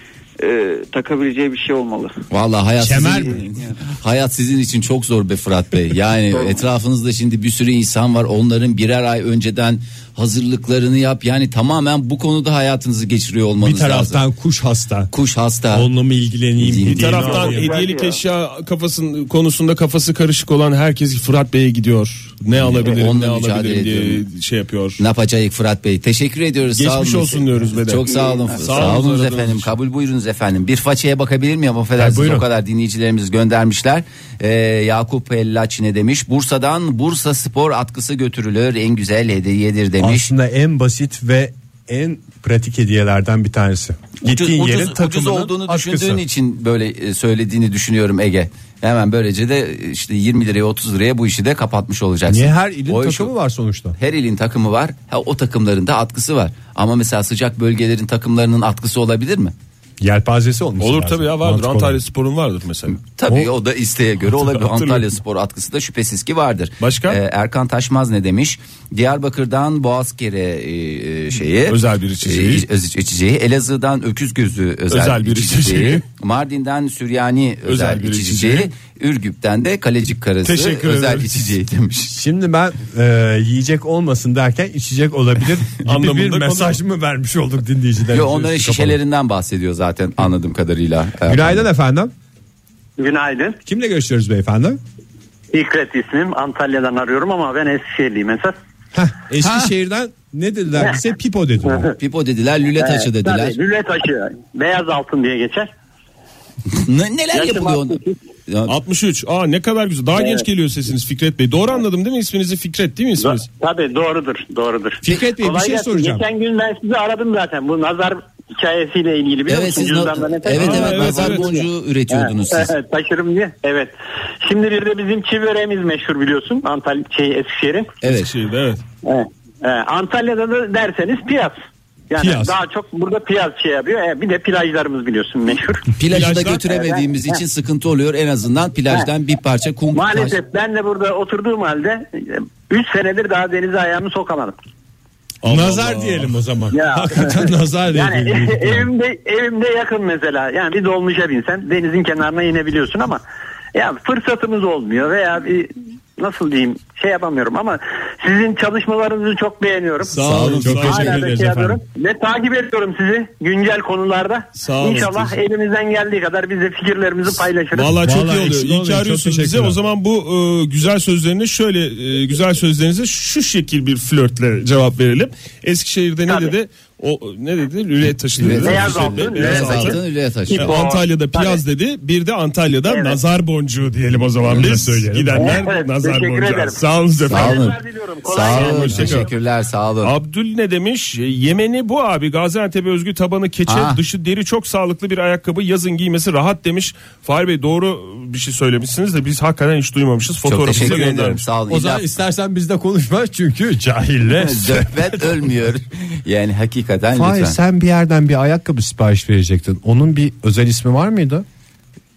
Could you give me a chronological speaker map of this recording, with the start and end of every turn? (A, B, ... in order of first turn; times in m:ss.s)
0:00.4-0:02.2 A
0:02.3-0:14.2 B
0:02.8-0:03.4 C
0:06.3-0:06.6 A
0:13.6-0:15.1 C
0:15.1-0:15.9 B
0:15.7-0:17.7 C
0:16.6-0:17.3 B
0:16.8-0:25.0 D
0:17.2-0:18.2 A
0:22.6-0:24.2 B
0:25.0-0:40.3 B
0:26.7-0:29.7 D
0:28.0-0:28.7 A
0:32.0-0:32.4 C
0:40.0-0:46.2 C
0:44.2-0:53.3 B
0:52.3-0:54.0 C
0:54.0-0:59.5 B
1:00.0-1:02.0 C
1:00.8-1:03.0 D
1:03.0-1:22.1 B
1:04.2-1:05.1 D
1:06.8-1:07.2 D
1:11.7-1:12.6 D
1:14.9-1:16.0 D
1:17.6-1:18.7 D
1:20.4-1:21.4 D
1:22.1-1:29.0 C
1:25.8-1:26.8 D
1:28.1-1:31.6 B
1:31.3-1:32.1 C
1:33.0-1:33.6 E
1:33.6-1:34.8 C
1:35.5-1:38.5 E
1:38.9-1:41.9 C
1:39.4-1:39.7 B
1:40.8-1:41.0 E
1:41.6-1:41.9 E
1:42.0-1:43.6 B
1:42.8-1:45.7 E
1:46.8-1:48.7 B
1:47.3-1:48.2 E
1:48.7-1:53.4 D
1:50.1-1:50.4 E
1:53.2-2:07.9 E
1:55.0-1:56.2 C
1:59.5-2:02.7 B
2:00.5-2:01.5 D
2:08.0-2:08.3 B
2:08.0-2:08.8 D
2:09.0-2:11.5 E
2:12.1-2:15.9 E
2:12.2-2:12.5 C
2:16.0-2:20.4 B
2:16.1-2:16.6 D
2:16.5-2:17.4 E
2:19.9-2:24.5 E
2:25.4-2:26.4 D
2:25.4-2:28.9 C
2:26.7-2:33.2 E
2:33.7-2:40.1 E
2:40.1-2:41.3 D
2:40.2-2:40.8 B
2:40.5-2:41.8 C
2:40.7-2:48.0 E
2:44.6-2:45.3 D
2:47.7-3:00.0 D
2:47.8-2:49.8 C
2:56.2-2:56.5 E
2:58.4-3:00.8 B
2:58.4-3:00.0 E
3:00.5-3:01.6 E
3:00.5-3:07.8 D
3:02.8-3:03.2 E
3:04.4-3:04.8 B
3:04.4-3:05.6 C
3:05.3-3:09.2 E
3:07.3-3:10.1 B
3:08.5-3:09.3 D
3:10.0-3:21.4 D
3:13.7-3:14.0 B
3:20.4-3:22.1 B
3:21.7-3:25.5 C
3:24.3-3:27.6 B
3:27.1-3:31.4 C